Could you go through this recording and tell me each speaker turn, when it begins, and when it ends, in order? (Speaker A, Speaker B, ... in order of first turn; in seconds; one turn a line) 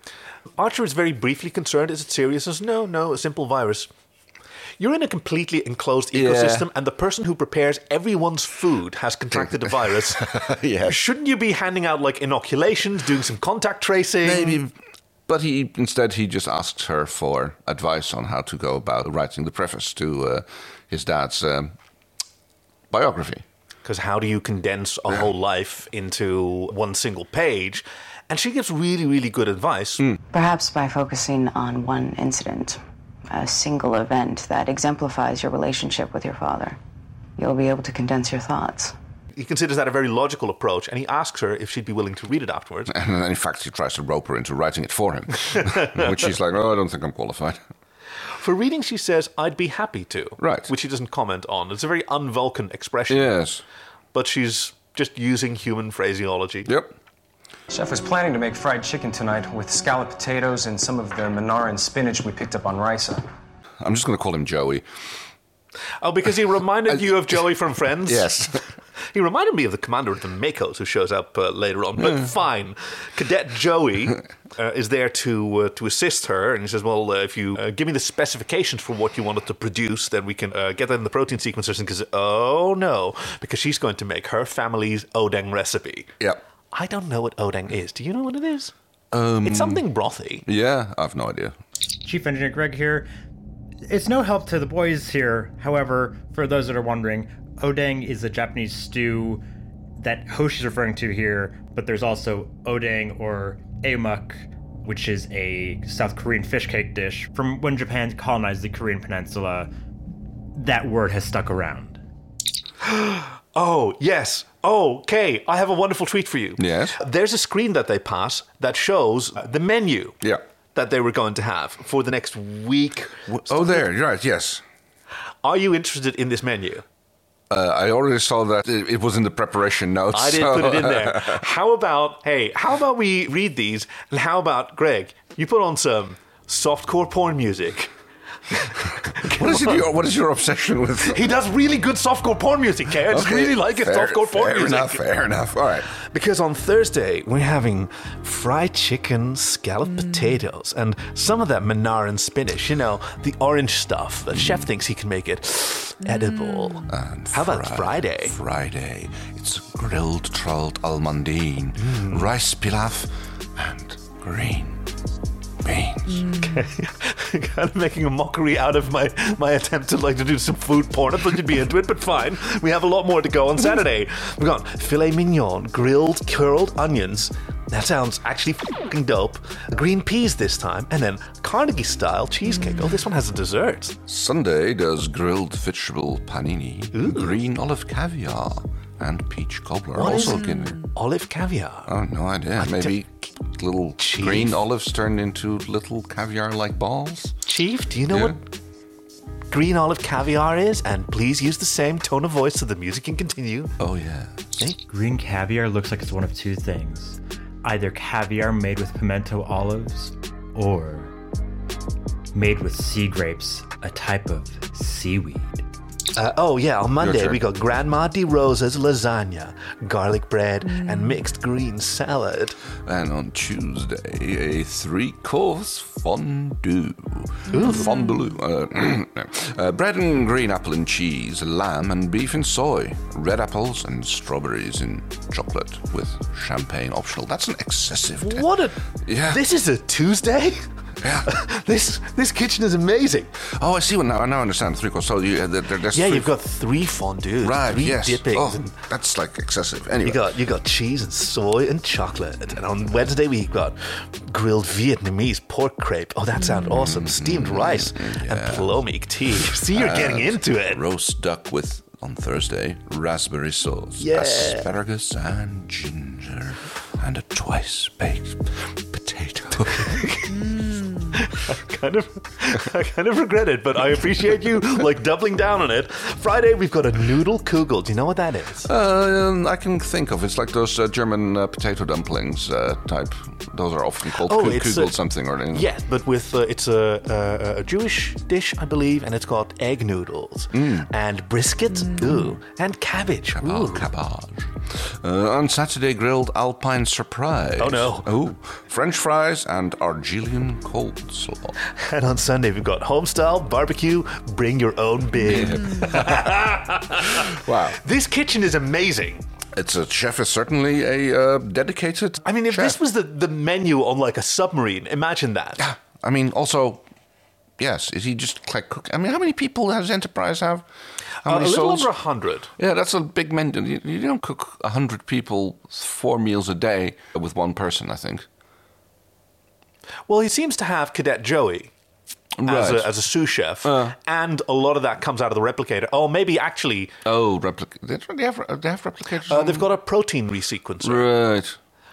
Speaker A: 0.6-3.9
Speaker A: 4.8-10.3
Speaker B: 6.1-6.7
Speaker B: 10.2-11.0
Speaker A: 10.8-14.6
Speaker B: 14.2-14.7
Speaker B: 15.3-21.8
Speaker B: 22.9-23.4
Speaker A: 23.9-30.0
Speaker C: 30.3-36.8
Speaker C: 37.4-39.0
Speaker A: 39.4-42.9
Speaker B: 42.9-47.6
Speaker A: 48.4-53.4
Speaker B: 50.4-50.7
Speaker B: 53.1-53.6
Speaker A: 54.1-56.7
Speaker B: 56.7-56.9
Speaker D: 57.7-63.2
Speaker B: 63.8-64.8
Speaker A: 66.0-68.6
Speaker B: 68.1-68.6
Speaker A: 69.1-86.1
Speaker B: 72.0-72.3
Speaker A: 86.7-88.7
Speaker B: 89.1-89.8
Speaker A: 89.4-90.4
Speaker B: 90.5-91.5
Speaker E: 92.0-93.1
Speaker E: 93.9-99.4
Speaker E: 100.0-109.7
Speaker E: 110.5-112.0
Speaker A: 112.8-120.2
Speaker B: 116.6-117.0
Speaker A: 120.8-123.8
Speaker B: 123.3-124.6
Speaker A: 125.4-126.8
Speaker B: 127.5-131.4
Speaker A: 130.1-137.9
Speaker A: 138.5-139.8
Speaker B: 139.1-141.2
Speaker A: 141.1-145.1
Speaker B: 143.1-145.9
Speaker A: 145.9-158.3
Speaker B: 154.4-154.6
Speaker B: 156.9-164.9
Speaker A: 161.8-162.3
Speaker B: 165.6-166.3
Speaker A: 166.3-184.0
Speaker B: 184.1-190.9
Speaker A: 186.9-187.4
Speaker A: 189.9-191.9
Speaker B: 191.9-197.3
Speaker A: 192.6-193.0
Speaker A: 194.0-194.6
Speaker A: 197.5-198.4
Speaker B: 198.1-198.4
Speaker A: 199.5-203.7
Speaker B: 203.8-204.6
Speaker E: 204.9-211.1
Speaker E: 212.3-215.6
Speaker A: 216.2-222.6
Speaker B: 217.0-217.4
Speaker B: 222.9-238.5
Speaker A: 227.5-227.9
Speaker A: 238.2-240.6
Speaker B: 239.0-239.4
Speaker B: 241.0-241.3
Speaker A: 241.2-243.3
Speaker B: 243.4-246.3
Speaker A: 245.9-248.7
Speaker B: 247.4-250.3
Speaker A: 250.1-260.8
Speaker B: 256.7-258.8
Speaker B: 259.8-270.1
Speaker A: 264.0-264.6
Speaker A: 269.9-278.7
Speaker B: 278.6-285.6
Speaker A: 284.2-285.0
Speaker A: 285.5-293.9
Speaker B: 290.5-290.9
Speaker B: 293.4-301.6
Speaker A: 297.6-298.1
Speaker A: 301.8-309.2
Speaker B: 305.2-306.4
Speaker B: 307.1-307.8
Speaker B: 309.6-312.8
Speaker A: 312.2-315.6
Speaker B: 315.6-316.8
Speaker B: 317.6-320.6
Speaker B: 321.2-321.9
Speaker A: 321.2-322.5
Speaker B: 322.6-328.3
Speaker A: 330.1-331.7
Speaker B: 332.4-332.9
Speaker A: 332.4-336.9
Speaker B: 333.6-333.9
Speaker B: 337.1-339.7
Speaker A: 339.3-341.1
Speaker B: 340.8-341.6